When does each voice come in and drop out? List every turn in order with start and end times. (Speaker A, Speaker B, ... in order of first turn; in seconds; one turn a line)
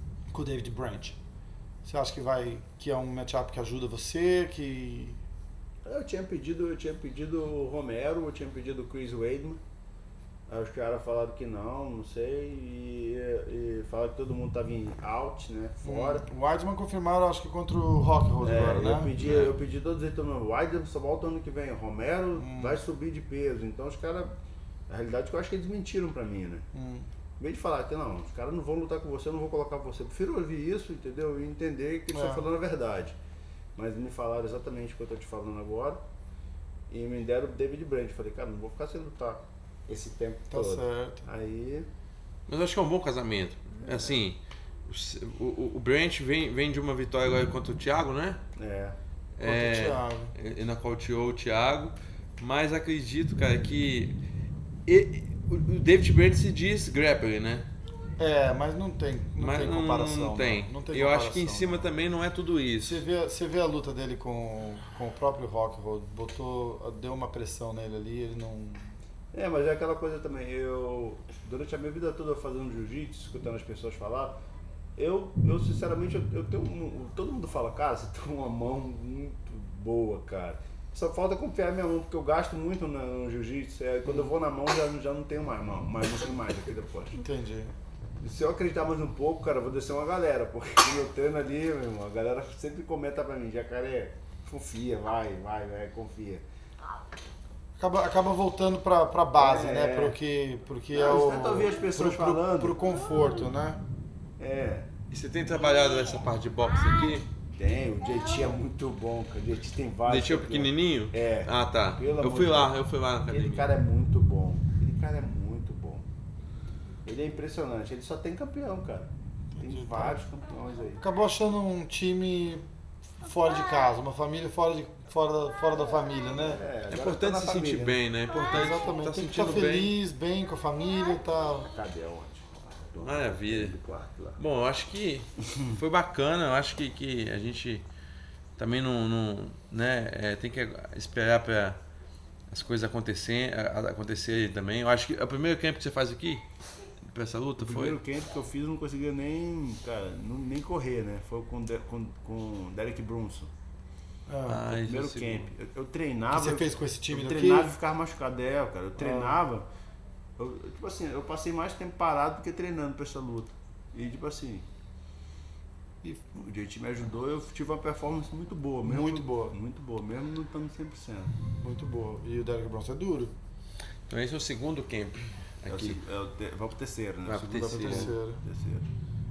Speaker A: 0.3-1.2
Speaker A: 1.8-5.2
Speaker B: 5.8-9.6
Speaker B: 10.5-16.2
Speaker A: 15.8-19.1
Speaker B: 18.4-24.3
Speaker C: 19.2-19.6
Speaker A: 22.4-22.8
Speaker B: 24.9-26.7
Speaker A: 26.7-27.1
Speaker B: 27.4-33.2
Speaker A: 32.1-32.4
Speaker B: 33.8-36.0
Speaker B: 36.9-41.9
Speaker A: 40.5-41.3
Speaker C: 42.5-48.4
Speaker B: 43.8-44.2
Speaker B: 48.5-49.0
Speaker C: 49.4-54.1
Speaker A: 49.4-50.3
Speaker C: 54.9-57.7
Speaker A: 58.2-61.9
Speaker C: 59.4-63.0
Speaker A: 62.8-68.9
Speaker B: 69.3-74.4
Speaker B: 75.0-87.2
Speaker A: 84.0-84.3
Speaker A: 87.2-87.7
Speaker B: 88.2-96.4
Speaker A: 97.8-103.8
Speaker B: 99.3-100.2
Speaker B: 100.9-102.8
Speaker B: 104.4-104.9
Speaker C: 105.1-107.3
Speaker B: 107.5-112.8
Speaker C: 110.0-113.7
Speaker B: 113.3-116.0
Speaker B: 117.0-121.0
Speaker A: 119.5-120.2
Speaker A: 121.0-122.6
Speaker A: 123.2-126.6
Speaker B: 126.4-128.0
Speaker C: 126.9-129.9
Speaker A: 128.3-131.7
Speaker B: 131.6-134.4
Speaker C: 133.0-133.8
Speaker C: 134.4-137.8
Speaker C: 138.6-141.8
Speaker C: 142.5-146.4
Speaker C: 147.1-148.0
Speaker B: 147.6-153.5
Speaker A: 154.3-154.7
Speaker C: 154.5-155.5
Speaker B: 154.7-159.7
Speaker A: 156.3-157.7
Speaker A: 159.0-159.4
Speaker B: 160.4-164.7
Speaker B: 166.3-171.3
Speaker A: 168.8-169.5
Speaker A: 171.6-173.3
Speaker C: 174.1-176.0
Speaker B: 175.7-178.9
Speaker C: 177.3-178.1
Speaker A: 177.7-178.4